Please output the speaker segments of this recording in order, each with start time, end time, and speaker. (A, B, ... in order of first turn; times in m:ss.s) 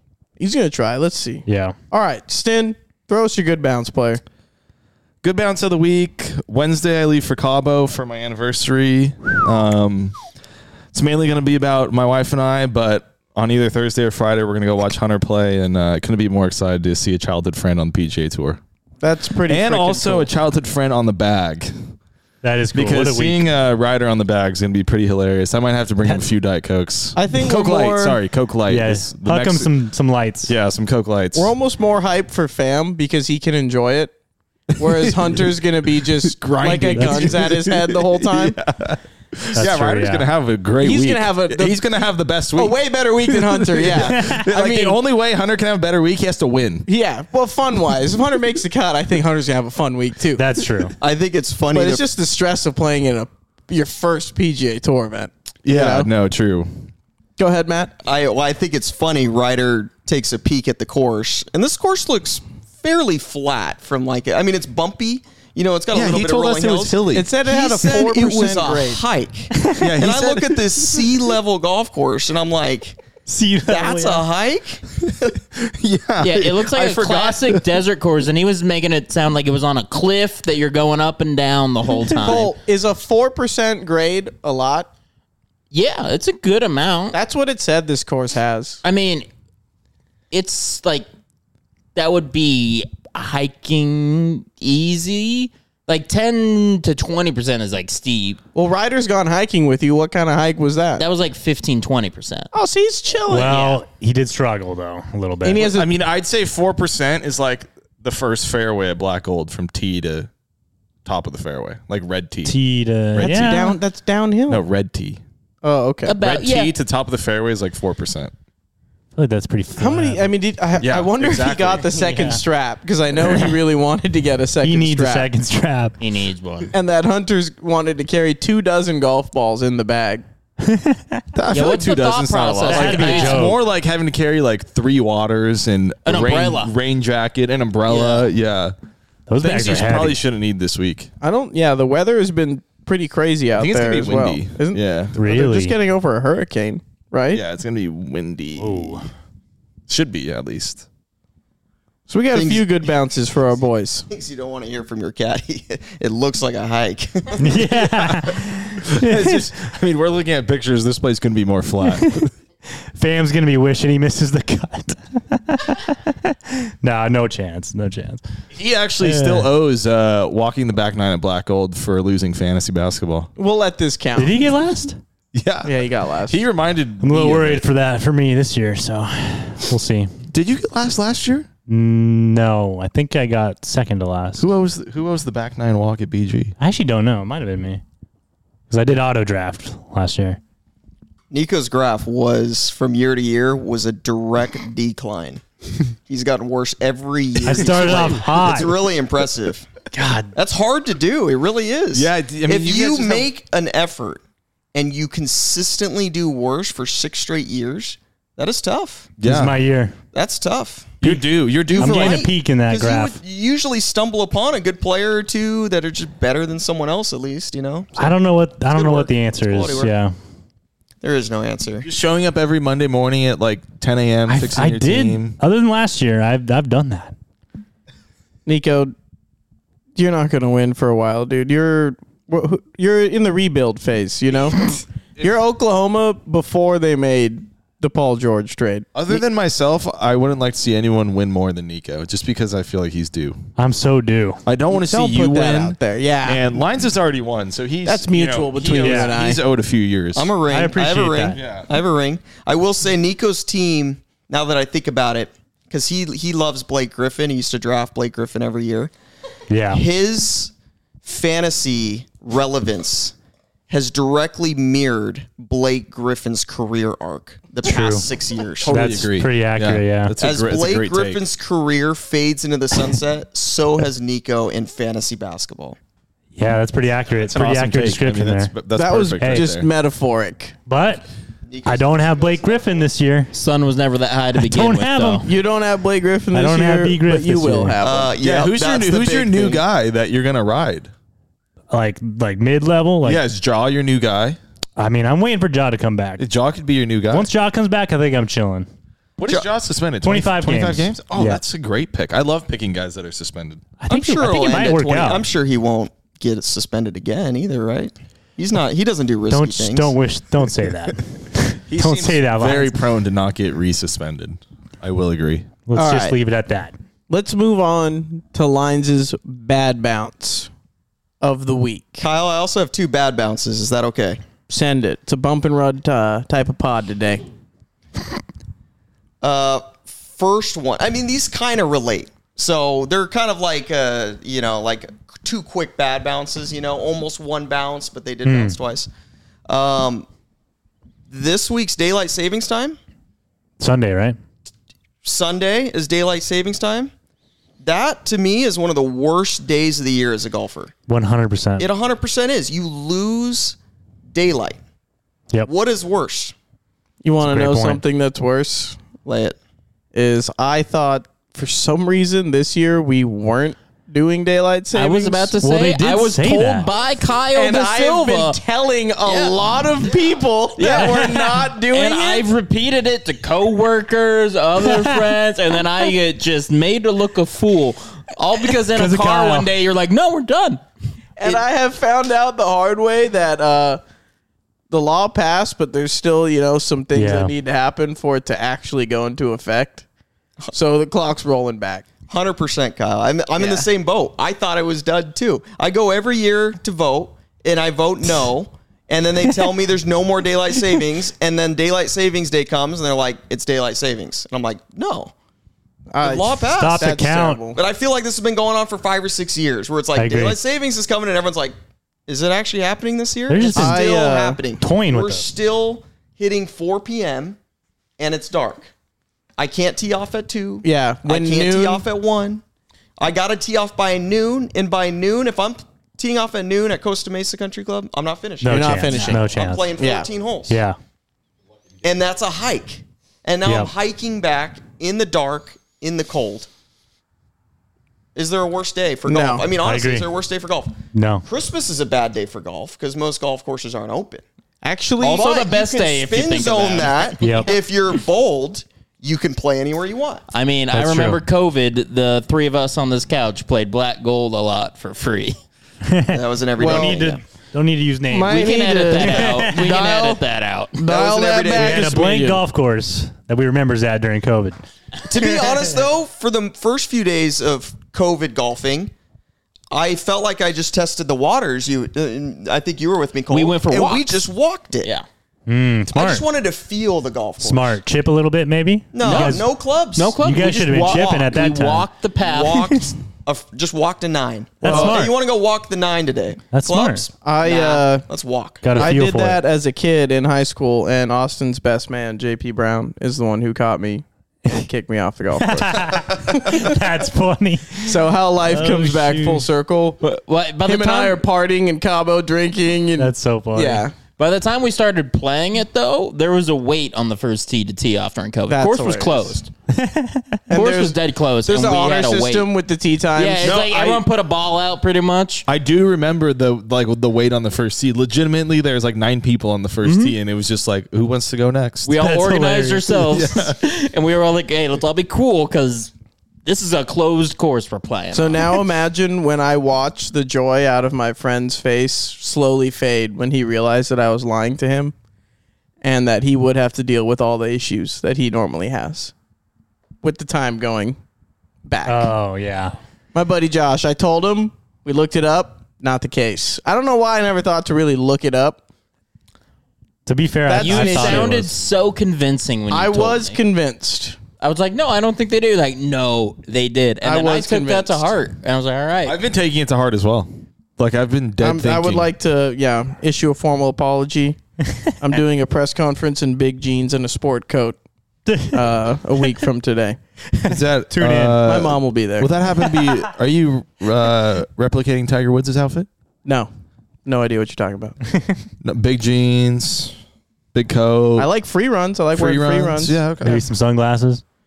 0:00.4-0:04.2 A
0:01.4-0:01.8 B
0:05.2-0:10.2 C
0:10.9-0:18.6 C
0:19.0-0:20.3 A
0:19.5-0:21.7 C
0:22.4-0:23.4 B
0:22.7-0:29.7 C
0:27.1-0:28.2 A
0:28.7-0:30.5 B
0:30.4-0:31.5 C
0:31.3-0:34.1 A
0:34.8-0:35.5 C
0:34.8-0:38.6 A
0:36.2-0:46.8 C
0:37.0-0:37.3 B
0:39.5-0:40.3 B
0:40.8-0:41.8 A
0:42.5-0:45.0 A
0:44.2-0:44.4 B
0:46.8-0:50.5 A
0:50.4-0:50.9 B
0:51.0-0:52.0 D
0:51.7-0:56.1 A
0:55.6-0:56.9 C
0:57.4-0:58.0 A
0:58.0-1:13.1 D
1:05.9-1:07.3 C
1:07.1-1:09.0 A
1:09.5-1:09.9 B
1:09.8-1:10.5 C
1:13.2-1:14.2 B
1:13.6-1:15.4 D
1:15.6-1:17.7 C
1:16.2-1:22.5 E
1:22.1-1:22.4 B
1:22.1-1:24.9 A
1:25.7-1:27.2 E
1:27.1-1:28.8 A
1:28.8-1:29.3 E
1:30.3-1:31.1 E
1:31.9-1:38.4 E
1:38.5-1:41.0 A
1:41.0-1:42.5 E
1:42.5-1:43.8 A
1:43.3-1:45.7 B
1:45.4-1:45.9 A
1:45.6-1:50.3 C
1:51.0-1:52.6 C
1:52.4-1:53.8 B
1:53.1-1:53.6 C
1:53.2-1:54.6 A
1:54.5-1:55.2 C
1:55.6-1:56.2 A
1:56.0-1:56.7 E
1:56.2-1:58.3 C
1:59.2-2:00.3 B
1:59.8-2:05.3 A
2:00.8-2:01.9 C
2:02.0-2:02.4 B
2:03.3-2:03.6 B
2:04.6-2:05.9 B
2:06.0-2:06.7 E
2:06.7-2:10.2 A
2:10.6-2:11.2 B
2:11.3-2:18.7 C
2:11.5-2:13.5 E
2:12.7-2:13.6 B
2:16.0-2:16.7 E
2:17.9-2:18.2 E
2:19.3-2:20.2 B
2:19.4-2:21.1 C
2:21.2-2:27.4 A
2:23.5-2:25.2 C
2:25.1-2:25.8 B
2:27.3-2:29.1 C
2:28.6-2:29.1 B
2:29.9-2:30.8 C
2:32.1-2:34.1 A
2:32.3-2:32.9 D
2:34.1-2:37.6 D
2:37.4-2:39.5 B
2:37.7-2:42.3 C
2:41.8-2:42.3 B
2:42.8-2:48.2 B
2:48.5-2:53.3 C
2:49.0-2:49.5 B
2:53.4-2:54.4 A
2:54.2-2:55.0 B
2:55.3-2:57.6 C
2:55.6-2:56.4 A
2:57.0-3:00.1 B
3:00.3-3:01.5 C
3:01.7-3:04.5 B
3:04.4-3:06.5 C
3:06.6-3:07.8 B
3:08.7-3:10.4 B
3:11.3-3:15.4 D
3:16.0-3:19.7 D
3:17.4-3:18.7 B
3:19.9-3:20.3 B
3:20.3-3:24.2 D
3:21.9-3:23.3 C
3:24.7-3:29.2 D
3:29.2-3:29.6 C
3:29.2-3:30.0 B
3:30.1-3:31.2 D
3:31.0-3:32.2 C
3:31.7-3:33.2 B
3:31.7-3:38.2 D
3:38.0-3:40.1 B
3:38.7-3:39.9 D
3:41.0-3:41.9 D
3:41.8-3:45.4 C
3:44.3-3:47.1 B
3:48.4-3:48.9 A
3:50.0-3:59.2 A
3:58.9-4:03.4 C
4:03.6-4:04.4 B
4:04.4-4:10.3 C
4:04.7-4:06.5 A
4:07.8-4:09.4 A
4:08.7-4:09.1 B
4:10.1-4:18.9 D
4:10.5-4:11.5 B
4:11.4-4:11.7 C
4:19.5-4:19.8 B
4:19.7-4:20.5 D
4:21.0-4:23.1 D
4:23.7-4:29.1 D
4:27.6-4:28.0 B
4:28.6-4:31.2 C
4:28.7-4:30.2 B
4:30.2-4:35.8 D
4:36.3-4:38.5 B
4:37.2-4:39.6 C
4:38.8-4:40.5 A
4:39.2-4:39.5 B
4:40.7-4:41.0 B
4:41.5-4:42.6 D
4:41.6-4:43.3 B
4:43.3-4:45.2 E
4:44.3-4:45.2 B
4:45.2-4:48.1 A
4:46.3-4:47.8 B
4:47.8-4:49.6 D
4:48.2-4:50.9 C
4:51.7-4:53.2 B
4:53.0-4:54.4 C
4:54.8-4:56.2 B
4:56.2-4:57.3 C
4:57.1-4:58.7 B
4:59.2-5:03.7 C
5:00.0-5:01.4 B
5:03.8-5:05.3 B
5:03.9-5:09.9 D
5:09.3-5:12.8 B
5:11.7-5:15.5 C
5:15.7-5:16.7 B
5:15.7-5:16.2 A
5:17.1-5:20.5 A
5:21.2-5:22.0 A
5:22.0-5:24.2 D
5:24.5-5:27.2 A
5:29.2-5:38.9 D
5:38.2-5:38.6 B
5:39.5-5:40.1 D
5:41.1-5:42.8 D
5:43.6-5:44.2 B
5:45.0-5:46.9 D
5:47.6-5:50.7 D
5:50.9-5:51.7 B
5:51.6-5:53.6 D
5:54.1-5:54.6 D
5:55.4-5:56.3 D
5:57.0-5:58.8 A
5:57.2-5:57.8 B
5:59.0-5:59.4 D
5:59.9-6:05.3 A
6:04.7-6:08.4 E
6:05.4-6:06.7 B
6:07.3-6:12.3 A
6:09.0-6:09.4 E
6:10.6-6:20.6 E
6:10.7-6:11.2 B
6:18.7-6:19.5 B
6:21.2-6:23.8 A
6:24.7-6:29.8 A
6:26.9-6:27.3 B
6:30.5-6:31.8 A
6:32.1-6:45.1 D
6:33.4-6:33.6 A
6:45.9-6:47.6 A
6:46.0-6:46.9 D
6:46.6-6:47.4 B
6:47.5-6:51.6 D
6:49.9-6:50.4 B
6:52.1-6:57.4 D
6:53.3-6:53.9 B
6:53.5-6:54.4 A
6:54.6-6:55.2 B
6:58.0-6:58.7 D
6:59.4-7:02.4 D
7:00.6-7:01.8 A
7:03.0-7:10.6 D
7:08.4-7:09.8 B
7:08.4-7:09.3 A
7:09.8-7:10.1 A
7:10.5-7:10.8 B
7:11.8-7:16.5 D
7:13.4-7:13.7 B
7:18.1-7:24.2 D
7:19.1-7:19.4 A
7:19.6-7:20.1 B
7:20.9-7:21.2 B
7:24.6-7:25.3 A
7:25.0-7:30.2 D
7:25.1-7:27.6 E
7:27.2-7:27.5 B
7:30.3-7:35.4 E
7:30.7-7:31.2 B
7:35.8-7:39.7 B
7:36.1-7:37.2 D
7:36.6-7:37.0 A
7:38.1-7:40.2 A
7:38.2-7:40.7 E
7:40.7-7:42.4 A
7:40.8-7:42.0 D
7:41.5-7:44.6 B
7:45.1-7:48.9 D
7:49.7-7:54.9 D
7:53.3-7:54.3 E
7:55.5-7:56.2 B
7:55.9-7:57.8 D
7:57.4-7:59.5 B
7:58.9-8:01.3 D
7:59.0-7:59.4 E
8:00.0-8:02.6 E
8:00.2-8:01.9 B
8:02.2-8:08.9 D
8:04.6-8:05.2 B
8:04.6-8:05.0 A
8:06.5-8:07.0 B
8:07.2-8:08.0 A
8:08.6-8:09.4 B
8:08.7-8:16.7 A
8:15.4-8:19.4 B
8:17.8-8:20.0 A
8:20.0-8:21.2 E
8:20.6-8:23.9 A
8:23.0-8:23.9 B
8:24.2-8:29.5 E
8:28.5-8:29.4 A
8:29.7-8:30.4 B
8:30.5-8:33.6 A
8:30.5-8:32.5 E
8:33.2-8:35.4 E
8:33.4-8:34.0 C
8:35.4-8:42.0 C
8:39.8-8:40.2 E
8:41.8-8:45.9 E
8:42.0-8:43.2 B
8:43.1-8:43.6 C
8:46.4-8:48.6 E
8:48.1-8:54.9 A
8:55.8-8:59.1 A
9:00.0-9:01.0 A
9:01.6-9:02.1 A
9:01.9-9:02.7 B
9:03.1-9:08.6 A
9:10.0-9:11.5 B
9:10.4-9:11.5 A
9:10.6-9:13.4 E
9:12.7-9:14.2 A
9:14.4-9:19.2 E
9:17.0-9:18.1 A
9:19.0-9:22.1 C
9:21.4-9:24.4 A
9:25.0-9:27.8 A
9:28.3-9:28.6 B
9:28.4-9:30.5 A
9:30.5-9:35.9 C
9:30.9-9:31.4 B
9:31.4-9:32.3 A
9:36.2-9:36.5 A
9:37.0-9:38.0 A
9:38.6-9:39.9 C
9:40.5-9:41.3 C
9:41.2-9:43.0 A
9:42.1-9:43.4 C
9:43.2-9:44.2 B